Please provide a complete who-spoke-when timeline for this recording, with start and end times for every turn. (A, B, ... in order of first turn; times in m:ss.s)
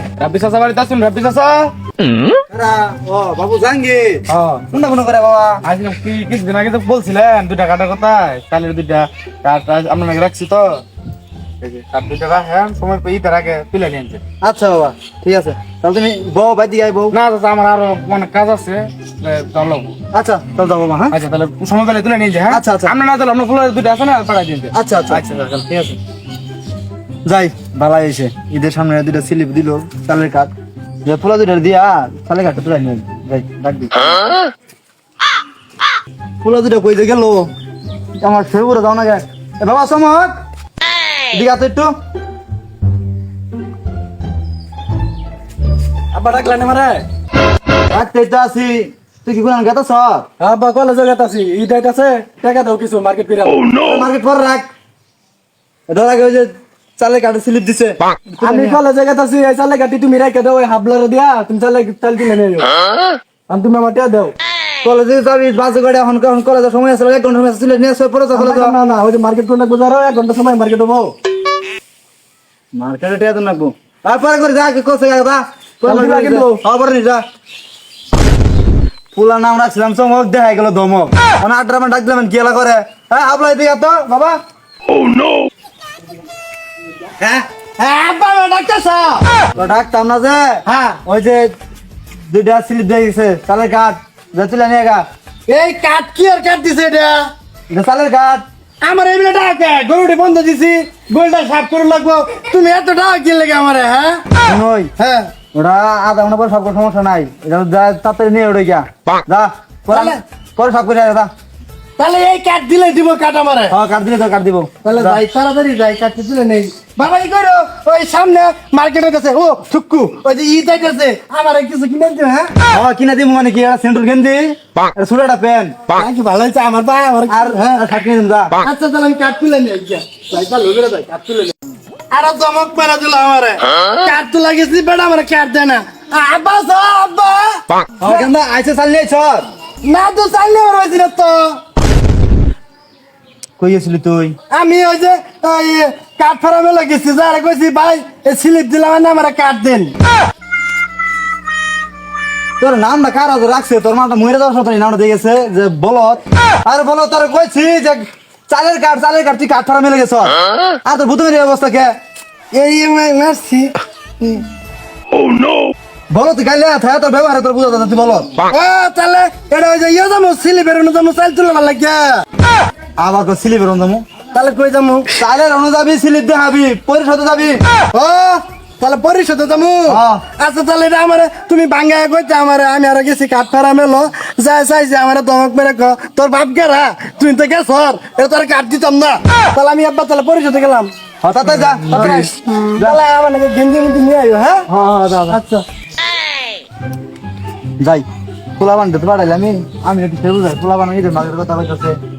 0:00.3-0:01.6 A
0:02.5-0:05.6 B
0:05.6-0:08.0 C
0:05.9-0:06.1 A
0:09.4-0:10.1 C
0:11.9-0:12.8 C
0:14.4-0:17.2 B
0:17.1-0:17.4 C
0:20.1-0:21.2 B
0:21.2-0:21.6 C
0:22.5-0:23.0 B
0:24.7-0:25.3 B
0:25.1-0:25.9 A
0:27.2-0:30.5 B
0:31.0-0:34.1 B
0:36.4-0:37.5 B
0:38.2-0:40.4 B
0:41.3-0:41.9 B
0:46.1-0:47.0 A
0:47.9-0:50.2 B
0:50.4-0:53.7 A
0:53.8-0:54.7 B
0:55.9-0:58.8 B
0:58.4-1:02.7 A
1:03.5-1:04.3 A
1:04.8-1:08.8 B
1:08.3-1:11.1 A
1:12.7-1:17.2 B
1:15.8-1:16.6 A
1:19.1-1:24.4 B
1:27.8-1:29.3 A
1:29.6-1:31.5 B
1:30.6-1:31.0 A
1:32.3-1:35.0 B
1:35.5-1:37.3 A
1:37.7-1:38.4 B
1:38.8-1:44.2 A
1:44.4-1:44.9 B
1:45.0-1:45.3 A
1:45.5-1:51.3 B
1:49.9-1:50.2 A
1:52.0-1:53.7 A
1:53.7-1:55.2 B
1:54.8-2:02.6 A
2:02.7-2:05.8 B
2:05.9-2:07.8 A
2:07.3-2:08.6 B
2:08.6-2:11.5 A
2:12.1-2:18.3 A
2:18.0-2:19.5 B
2:19.8-2:21.6 A
2:23.6-2:24.3 B
2:24.5-2:29.9 A
2:32.6-2:41.9 B
2:42.5-2:44.4 A
2:46.1-2:48.3 B
2:48.5-2:52.2 A
2:53.0-2:54.0 B
2:54.3-2:55.1 A
2:55.2-2:57.6 B
2:57.9-3:10.9 A
2:59.9-3:00.2 B
3:11.2-3:13.0 B
3:11.8-3:14.7 A
3:14.7-3:15.4 B
3:15.3-3:15.6 A
3:18.6-3:22.0 B